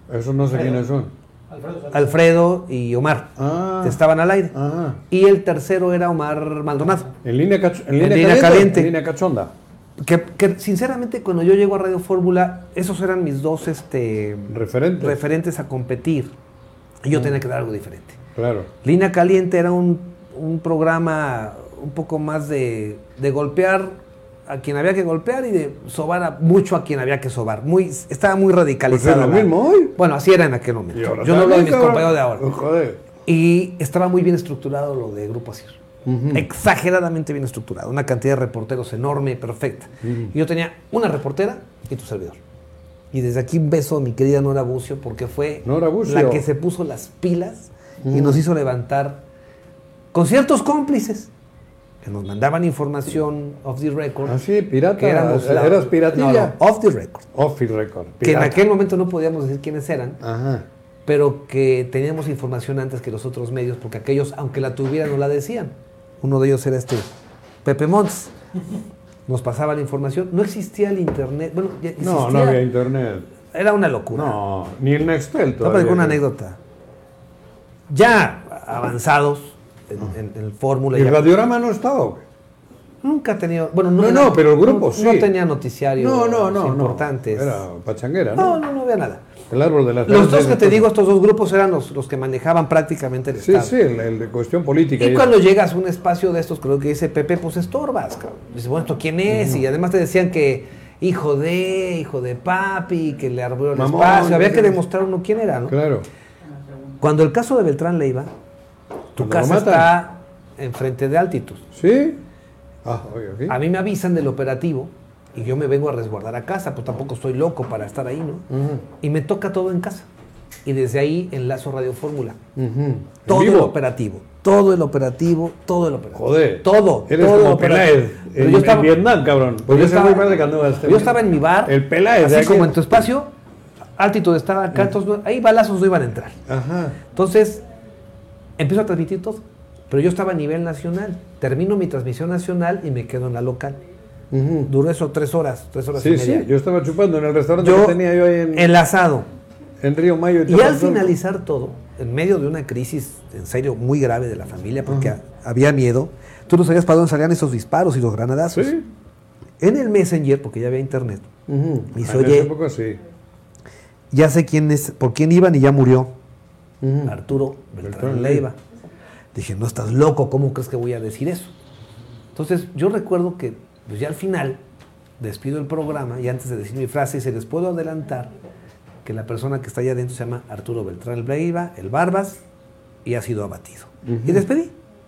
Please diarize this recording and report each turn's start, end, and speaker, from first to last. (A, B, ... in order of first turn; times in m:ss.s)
0:00.1-0:01.1 A
0:01.7-0:04.6 B
0:03.4-0:04.0 A
0:04.5-0:05.0 A
0:05.1-0:07.1 B
0:07.2-0:09.5 A
0:08.0-0:08.9 B
0:10.0-0:16.3 B
0:14.5-0:15.2 A
0:17.0-0:18.2 B
0:18.4-0:18.7 A
0:18.8-0:23.9 B
0:24.5-0:32.5 B
0:28.9-0:30.0 A
0:30.9-0:33.0 A
0:33.3-0:35.8 B
0:36.0-0:36.4 A
0:36.3-0:42.4 B
0:40.0-0:40.3 A
0:43.1-0:49.2 B
0:45.6-0:46.4 A
0:48.0-0:48.4 A
0:50.1-0:51.3 B
0:52.0-0:54.4 B
0:54.2-0:56.6 A
0:55.0-0:57.2 B
0:57.3-0:58.6 A
0:58.2-1:00.2 B
1:00.2-1:00.7 A
1:01.1-1:07.1 B
1:07.6-1:08.3 B
1:09.3-1:12.6 B
1:12.0-1:13.3 A
1:13.5-1:14.4 B
1:14.1-1:16.2 A
1:15.6-1:16.6 B
1:17.9-1:21.3 B
1:20.9-1:22.2 A
1:23.0-1:27.6 B
1:24.0-1:25.3 A
1:26.0-1:28.6 A
1:28.4-1:29.2 B
1:29.5-1:30.9 A
1:30.1-1:33.7 B
1:33.4-1:35.3 A
1:35.0-1:45.8 B
1:39.3-1:39.6 A
1:43.7-1:44.8 A
1:45.7-1:46.1 A
1:47.0-1:48.3 B
1:49.2-1:51.7 B
1:49.2-1:49.9 A
1:51.7-1:52.2 A
1:52.8-1:53.6 A
1:53.5-1:58.5 B
1:58.5-1:58.8 A
1:59.0-2:00.1 B
2:00.6-2:02.4 B
2:02.6-2:03.7 A
2:03.3-2:09.0 B
2:06.1-2:12.9 A
2:09.6-2:13.3 B
2:14.0-2:16.4 B
2:16.5-2:17.0 A
2:17.0-2:17.6 B
2:18.6-2:23.8 B
2:24.3-2:24.7 A
2:24.7-2:26.5 B
2:26.0-2:28.7 A
2:27.6-2:29.3 B
2:29.8-2:31.1 A
2:30.5-2:38.7 B
2:34.9-2:35.2 A
2:38.5-2:38.9 A
2:39.6-2:41.3 B
2:41.5-2:43.0 A
2:41.9-2:42.5 B
2:44.1-2:46.1 B
2:46.8-2:47.2 A
2:47.1-2:48.6 B
2:47.8-2:48.5 A
2:49.3-2:51.5 B
2:52.3-2:54.6 B
2:55.2-2:58.3 B
2:59.0-3:02.4 B
3:03.0-3:04.7 B
3:04.0-3:04.4 A